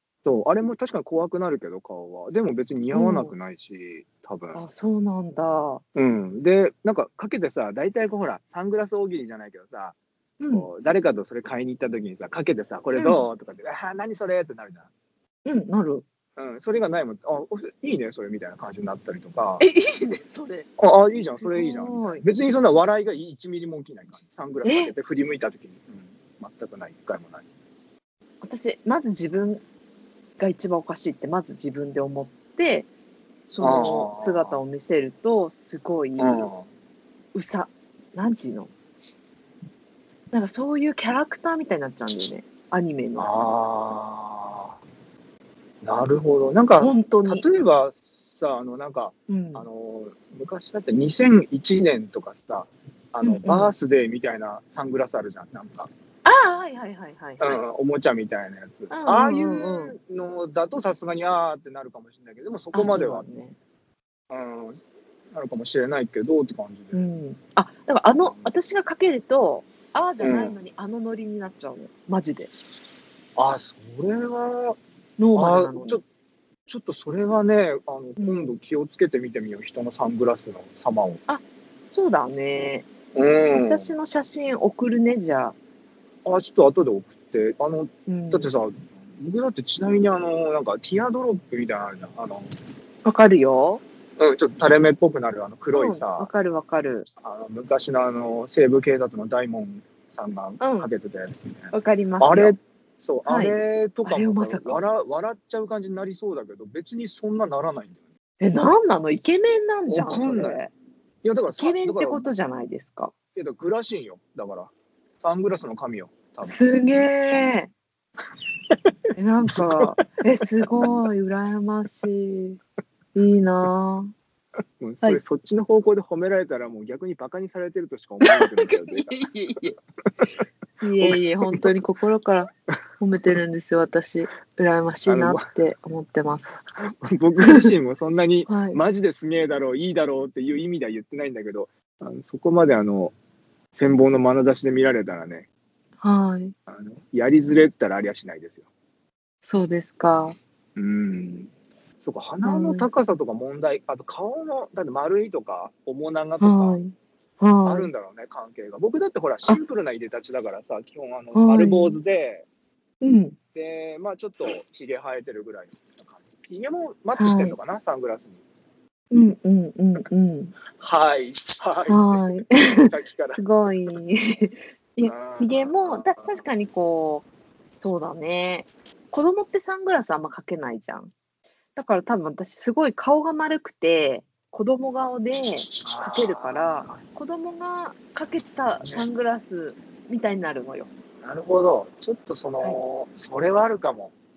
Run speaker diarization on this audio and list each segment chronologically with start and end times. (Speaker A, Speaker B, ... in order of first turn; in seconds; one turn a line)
Speaker A: 0.2-4.7
Speaker B: 2.9-3.4
Speaker B: 4.5-5.8
Speaker A: 6.0-10.0
Speaker B: 10.4-10.7
Speaker A: 10.5-14.9
Speaker B: 12.9-13.2
Speaker B: 15.4-16.1
Speaker A: 16.4-19.6
Speaker B: 19.6-20.7
Speaker A: 20.8-27.5
Speaker B: 21.3-22.2
Speaker B: 24.6-24.9
Speaker B: 28.4-29.6
Speaker B: 30.4-32.9
Speaker B: 33.5-36.5
Speaker A: 33.6-34.6
Speaker A: 36.2-36.7
Speaker B: 37.3-38.7
Speaker B: 40.3-43.3
Speaker A: 43.2-44.8
Speaker A: 45.8-55.9
Speaker B: 46.8-47.5
Speaker B: 49.3-49.7
Speaker B: 53.2-53.7
Speaker B: 56.2-57.6
Speaker A: 57.4-63.3
Speaker B: 58.9-60.0
Speaker B: 62.7-63.6
Speaker A: 64.3-64.8
Speaker A: 65.3-67.1
Speaker B: 66.9-72.5
Speaker A: 68.2-68.5
Speaker A: 70.2-70.5
Speaker A: 73.4-74.8
Speaker B: 75.2-76.0
Speaker A: 75.3-76.0
Speaker A: 76.7-81.2
Speaker B: 78.2-78.5
Speaker B: 81.3-82.9
Speaker A: 83.2-83.9
Speaker B: 83.5-85.6
Speaker A: 86.2-92.5
Speaker B: 88.1-88.5
Speaker B: 93.0-93.8
Speaker A: 94.2-96.3
Speaker B: 95.7-97.1
Speaker A: 97.2-108.0
Speaker B: 100.6-100.9
Speaker B: 101.7-102.6
Speaker B: 103.3-104.8
Speaker B: 108.4-110.7
Speaker A: 109.9-110.6
Speaker A: 111.2-112.3
Speaker B: 111.6-113.1
Speaker A: 113.3-116.6
Speaker B: 116.5-117.7
Speaker B: 119.2-122.6
Speaker A: 119.5-119.9
Speaker B: 123.2-124.1
Speaker A: 124.8-129.2
Speaker B: 128.2-129.8
Speaker B: 130.8-136.6
Speaker A: 131.0-131.7
Speaker A: 135.1-135.5
Speaker A: 136.8-143.2
Speaker B: 137.4-137.7
Speaker B: 138.5-138.8
Speaker A: 143.7-145.5
Speaker B: 146.0-146.6
Speaker A: 146.7-148.7
Speaker B: 149.4-150.4
Speaker A: 150.8-151.5
Speaker A: 152.0-156.8
Speaker B: 152.4-152.9
Speaker B: 156.4-157.9
Speaker A: 157.7-162.5
Speaker B: 161.3-162.0
Speaker B: 163.0-163.4
Speaker A: 163.6-168.4
Speaker B: 167.2-167.6
Speaker B: 169.1-170.5
Speaker A: 170.8-173.4
Speaker B: 171.9-177.3
Speaker A: 175.1-176.4
Speaker B: 177.8-181.1
Speaker B: 181.8-190.9
Speaker A: 185.8-187.0
Speaker A: 188.8-189.1
Speaker A: 191.2-194.1